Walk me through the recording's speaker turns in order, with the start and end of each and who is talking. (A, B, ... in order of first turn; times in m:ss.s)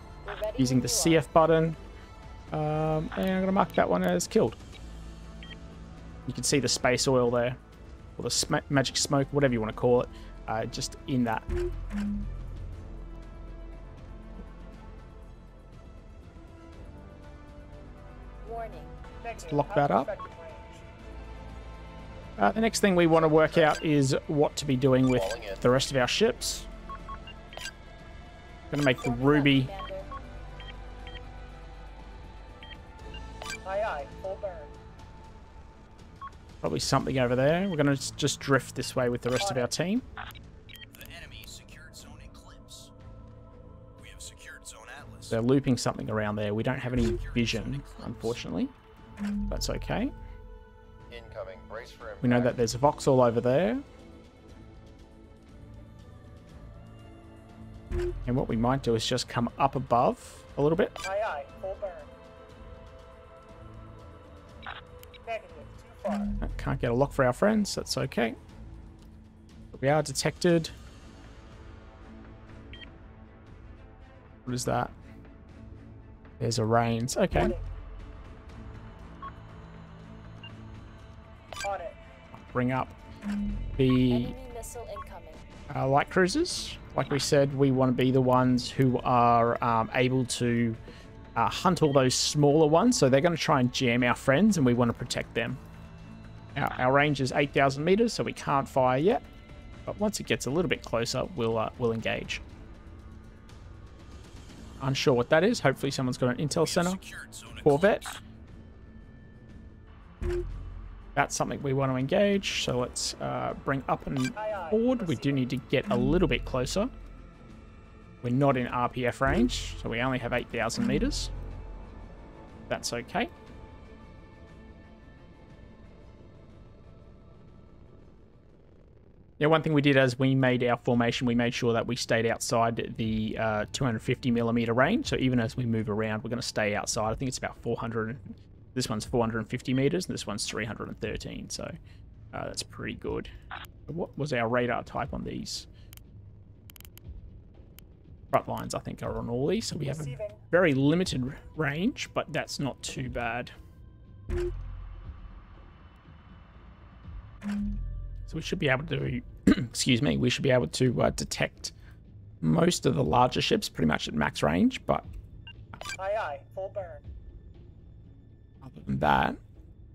0:00.2-0:01.3 A
0:00.6-0:01.8 B
0:02.5-0:04.6 B
0:06.2-0:07.6 B
0:08.2-0:11.5 B
0:18.4-0:18.9 A
0:19.2-0:20.8 C
0:19.4-0:20.1 B
0:22.4-0:26.7 B
0:23.1-0:23.8 D
0:25.1-0:25.6 D
0:28.7-0:29.7 B
0:29.0-0:30.1 A
0:33.6-0:34.7 C
0:36.6-0:40.0 B
0:39.4-0:39.7 C
0:40.9-0:42.9 E
0:44.0-0:45.4 E
0:45.3-0:48.7 B
0:46.8-0:48.4 E
0:49.5-0:50.1 B
0:51.1-0:52.6 D
0:52.2-0:53.8 B
0:58.2-1:00.9 B
1:01.0-1:02.1 C
1:05.2-1:06.4 C
1:06.4-1:08.4 B
1:09.7-1:10.7 B
1:14.4-1:14.9 B
1:16.4-1:17.5 B
1:17.1-1:17.7 C
1:21.6-1:22.0 C
1:22.3-1:22.9 B
1:23.8-1:24.3 B
1:24.1-1:25.4 A
1:25.7-1:30.8 B
1:31.4-1:35.6 B
1:36.5-1:39.2 B
1:39.9-1:42.4 B
1:44.8-1:47.0 B
1:46.6-1:48.2 E
1:47.6-1:48.1 B
1:51.1-1:56.9 B
1:54.3-1:55.5 C
1:58.2-2:01.3 B
2:02.7-2:03.3 B
2:09.4-2:21.7 B
2:22.3-2:23.3 B
2:23.9-2:25.7 B
2:28.3-2:33.5 B
2:29.8-2:30.4 C
2:38.3-2:41.7 B
2:42.4-2:45.1 B
2:46.0-2:47.0 C
2:48.6-2:49.4 B